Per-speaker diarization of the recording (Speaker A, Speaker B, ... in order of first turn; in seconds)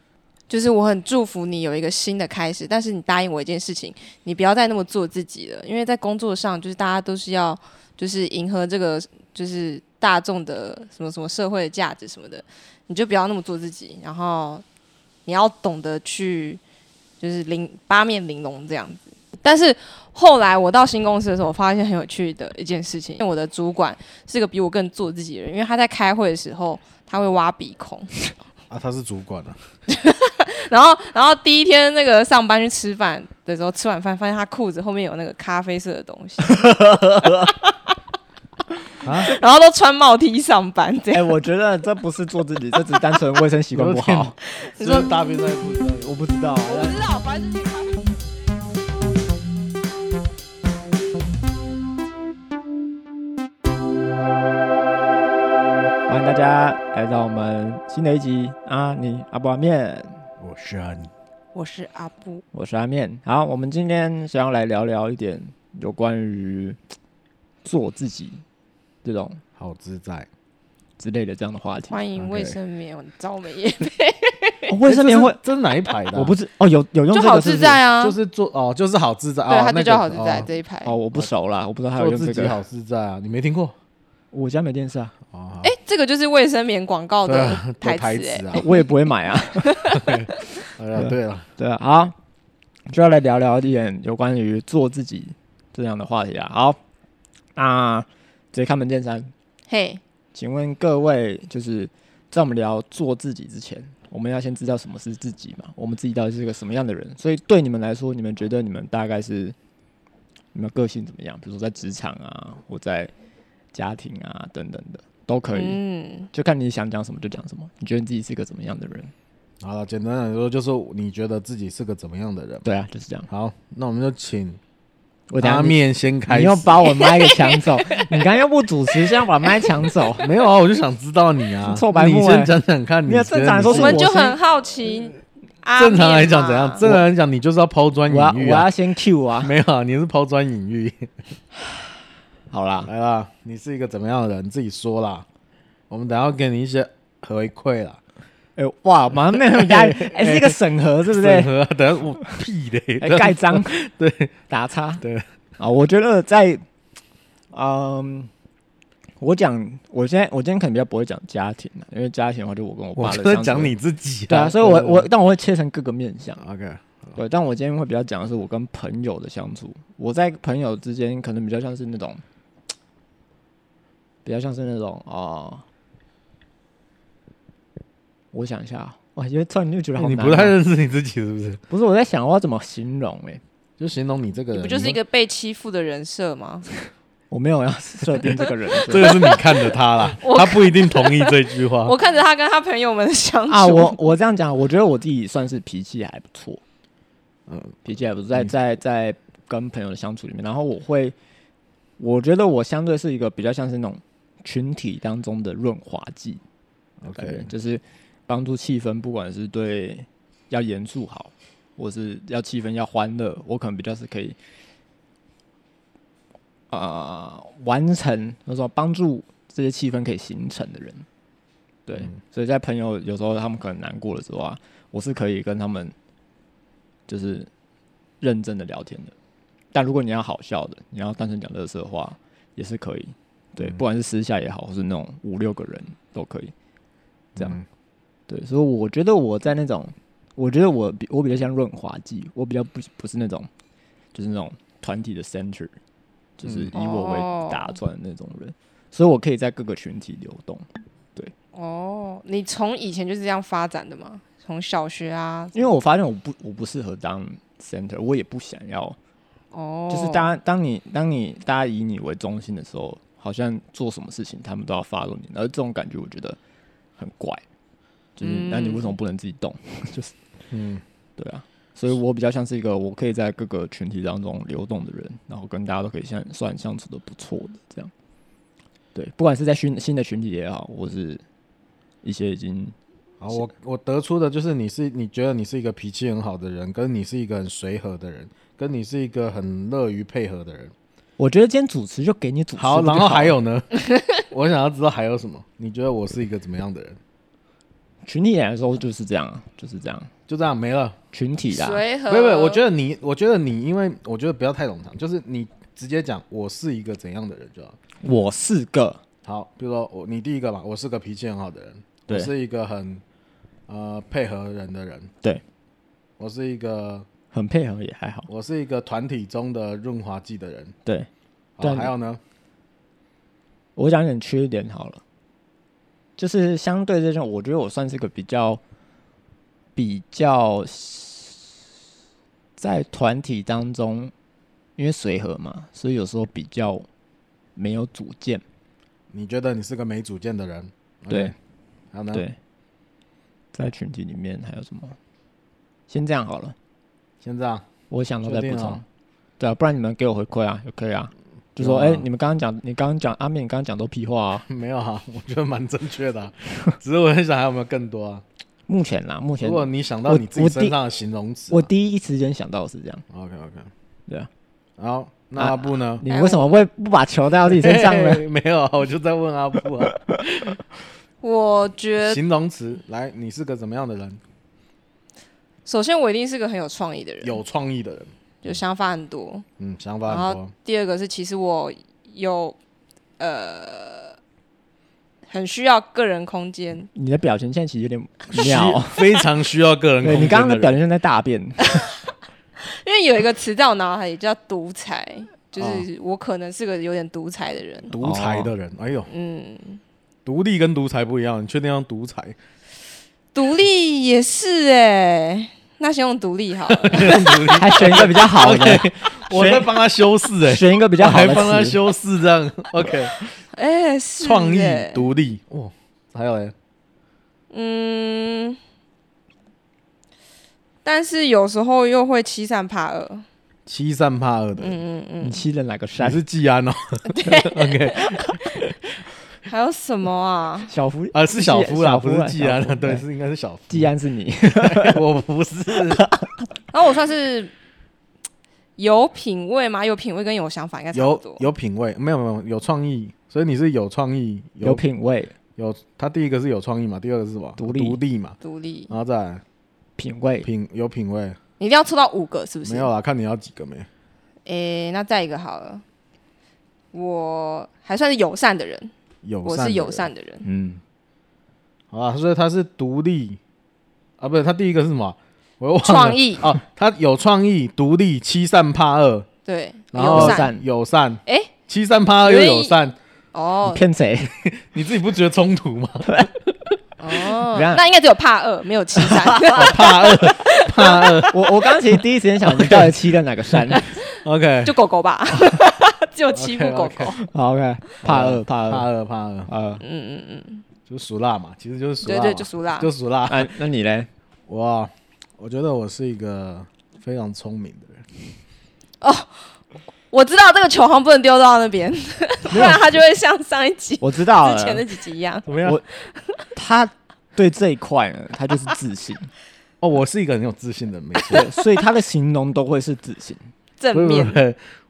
Speaker A: 0.5-14.6, 15.2-16.6, 17.2-28.1, 29.9-36.6, 39.2-41.3, 44.5-45.1, 46.6-48.2, 61.5-62.4, 71.9-74.7, 77.1-78.2, 79.5-81.0, 85.6-88.8, 89.6-90.5, 99.7-100.0, 115.5-116.3, 126.8-128.1, 129.4-129.9, 133.7-136.8, 184.5-186.7, 189.0-194.0, 246.7-247.7, 251.5-255.7, 259.5-260.4, 268.2-268.9, 301.5-302.6, 366.1-366.5, 371.2-372.2, 375.6-377.4, 378.4-379.4, 380.1-382.6, 383.2-384.2, 385.3-386.9, 391.6-391.9, 392.6-397.9, 399.1-399.8, 403.3-407.6, 413.1-415.1, 417.5-418.6, 420.8-423.2, 424.6-425.4, 427.0-428.7, 429.4-430.7, 436.7-437.5, 438.8-441.4, 448.4-448.9, 451.6-452.9, 454.4-455.8, 456.9-458.9, 459.4-460.4, 465.8-466.6, 469.4-470.5, 471.2-471.5, 472.2-472.8, 473.3-473.8, 477.0-481.3, 484.1-487.2, 489.8-490.6, 492.0-492.9, 499.0-499.5, 500.1-506.4, 513.8-514.4
Speaker B: 28.7-29.6, 39.0-39.3, 43.7-46.1, 60.4-61.1, 69.6-70.3, 72.2-72.5, 74.8-76.3, 78.0-80.5, 82.0-83.7, 85.3-85.7, 87.2-88.7, 89.9-91.5, 119.6-122.6, 123.3-124.6, 125.4-126.8, 130.2-134.0, 135.8-138.7, 139.4-141.1, 142.8-145.2, 145.9-148.0, 149.2-154.3, 155.0-155.2, 162.9-165.1, 166.4-167.2, 179.9-181.6, 183.8-185.0, 188.2-191.9, 197.5-197.8, 207.0-207.5, 237.3-237.6, 246.4-246.7, 270.5-270.8, 283.2-290.7, 292.6-297.0, 300.3-301.0, 302.1-307.8, 309.2-313.0, 313.7-315.1, 316.2-317.1, 318.3-320.7, 321.6-322.2, 339.1-341.3, 341.9-342.2, 347.2-347.6, 348.2-348.8, 351.6-352.1, 354.5-358.2, 359.4-361.7, 363.1-363.7, 364.8-366.0, 367.5-370.6, 372.0-374.2, 377.2-378.1, 379.6-380.5, 388.3-390.8, 395.6-395.9, 397.9-399.1, 400.2-402.4, 406.7-413.1, 414.2-416.5, 423.7-424.8, 426.0-428.5, 431.1-433.9, 434.5-436.0, 440.9-444.8, 445.6-448.4, 448.9-449.4, 450.4-451.4, 452.6-453.9, 459.2-460.1, 461.9-463.4, 464.2-469.3, 469.9-472.9, 474.2-476.3, 479.5-482.9, 483.5-484.8, 486.3-487.2, 488.0-489.5, 490.9-493.5, 494.5-498.1, 502.5-502.8, 505.4-505.8, 509.8-511.5, 513.9-514.6
Speaker C: 36.5-37.5, 41.1-44.3, 46.0-47.0, 56.1-60.2, 62.5-66.8, 67.6-68.4, 69.0-69.4, 71.0-72.0, 74.7-75.4, 76.1-77.8, 80.8-82.6, 84.3-85.1, 88.5-89.8, 91.0-92.1, 92.9-96.8, 97.5-99.3, 100.3-109.5, 110.5-113.1, 113.7-115.8, 116.3-119.1, 122.6-123.3, 125.3-130.3, 131.6-132.5, 133.0-134.3, 138.1-139.5, 142.5-142.9, 148.6-151.5, 153.0-153.8, 154.5-155.0, 155.6-156.6, 157.5-158.3, 159.2-163.7, 164.3-166.4, 167.2-172.2, 174.2-175.6, 178.3-180.5, 181.7-183.4, 187.3-189.3, 193.5-196.6, 197.8-201.1, 202.0-206.4, 207.1-214.3, 216.7-221.1, 221.8-225.9, 227.1-227.5, 228.2-229.1, 229.7-236.5, 238.3-243.5, 244.1-245.7, 246.4-251.3, 255.5-259.0, 259.9-266.4, 267.0-267.4, 268.2-270.1, 271.2-277.9, 278.9-281.2, 282.0-282.8, 291.2-293.4, 298.0-300.1, 301.1-301.8, 308.0-309.0, 317.3-318.3, 321.6-321.9, 323.8-325.0, 326.2-328.6, 329.8-331.6, 332.6-334.1, 334.8-336.9, 337.6-338.4, 342.1-342.4, 343.5-345.0, 345.9-346.5, 347.9-348.8, 349.4-354.5, 356.5-356.7, 358.7-360.8, 361.5-363.0, 365.4-368.2, 369.8-370.2, 386.9-389.2, 390.0-391.6, 398.0-398.5, 407.5-409.8, 410.4-411.8, 425.2-426.2, 430.7-433.0, 433.7-435.0, 435.7-436.5, 444.6-445.3, 447.6-448.0, 450.0-450.5, 460.4-460.8, 469.9-470.6, 473.6-474.3, 477.3-477.8, 479.0-479.6, 481.3-484.0, 487.2-488.9, 489.5-489.8, 493.3-494.1, 504.0-504.8, 506.5-509.3, 511.3-513.5